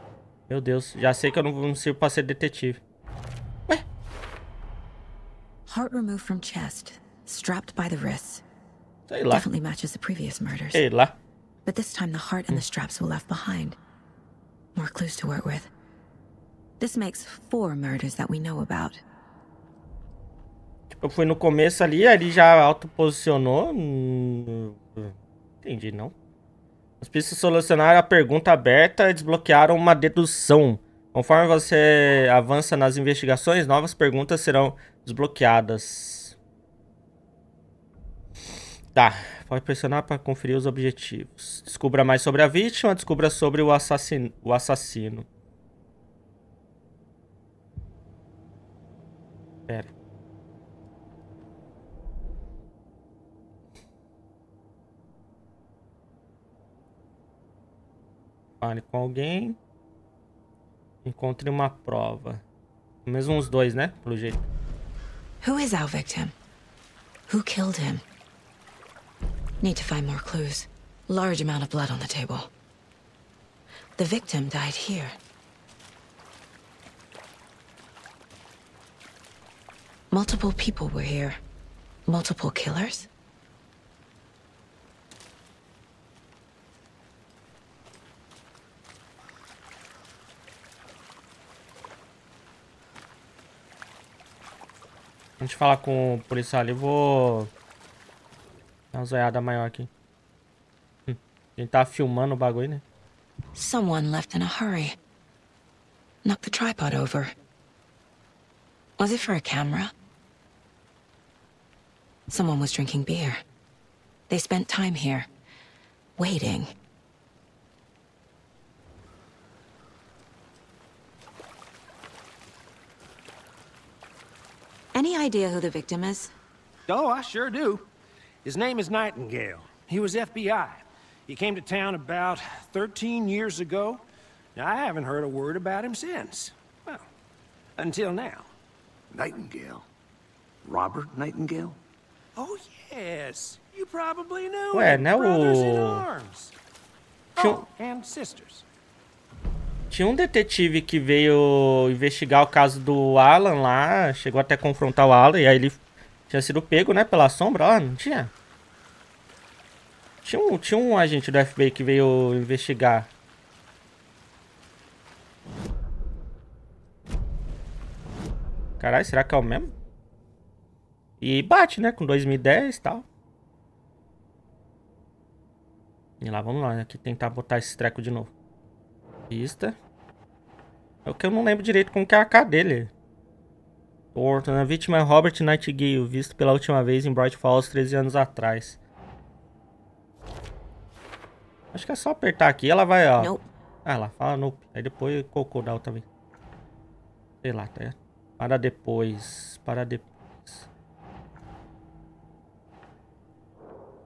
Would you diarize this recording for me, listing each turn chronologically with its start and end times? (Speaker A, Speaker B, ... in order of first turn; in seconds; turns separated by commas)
Speaker A: 0.5-2.8, Speaker B: 5.7-8.4, Speaker A: 9.1-9.4, Speaker B: 9.3-10.8, Speaker A: 10.7-11.2, Speaker B: 11.6-13.8, Speaker B: 14.7-15.7, Speaker B: 16.8-19.0, Speaker A: 20.9-26.1, Speaker A: 27.0-36.4, Speaker A: 38.9-45.3, Speaker A: 58.6-59.6, Speaker A: 61.0-62.4, Speaker A: 63.0-64.4, Speaker B: 65.4-66.3, Speaker B: 67.3-68.0, Speaker B: 69.6-72.5, Speaker B: 74.0-75.1, Speaker B: 80.1-81.4, Speaker B: 82.1-83.1, Speaker A: 95.4-97.5, Speaker A: 98.9-99.9, Speaker A: 101.1-102.8, Speaker B: 103.5-105.0, Speaker B: 106.2-107.3, Speaker B: 109.0-109.9, Speaker B: 112.3-113.4, Speaker B: 114.3-115.3, Speaker B: 116.2-116.7, Speaker B: 124.9-126.3, Speaker C: 126.9-127.9, Speaker C: 128.4-134.0, Speaker C: 134.6-137.1, Speaker C: 137.8-138.5, Speaker D: 139.1-139.9, Speaker D: 140.6-141.8, Speaker C: 142.3-146.5, Speaker A: 144.7-146.1, Speaker C: 147.3-148.6, Speaker A: 147.4-147.7, Speaker A: 149.9-158.3, Speaker A: 160.2-163.1, Speaker A: 168.8-169.7, Speaker A: 171.2-173.0, Speaker A: 176.2-178.3, Speaker A: 179.3-179.8, Speaker A: 181.1-182.9, Speaker A: 184.1-188.8, Speaker A: 191.7-193.3, Speaker B: 193.2-193.4, Speaker A: 193.8-196.0, Speaker A: 197.4-200.7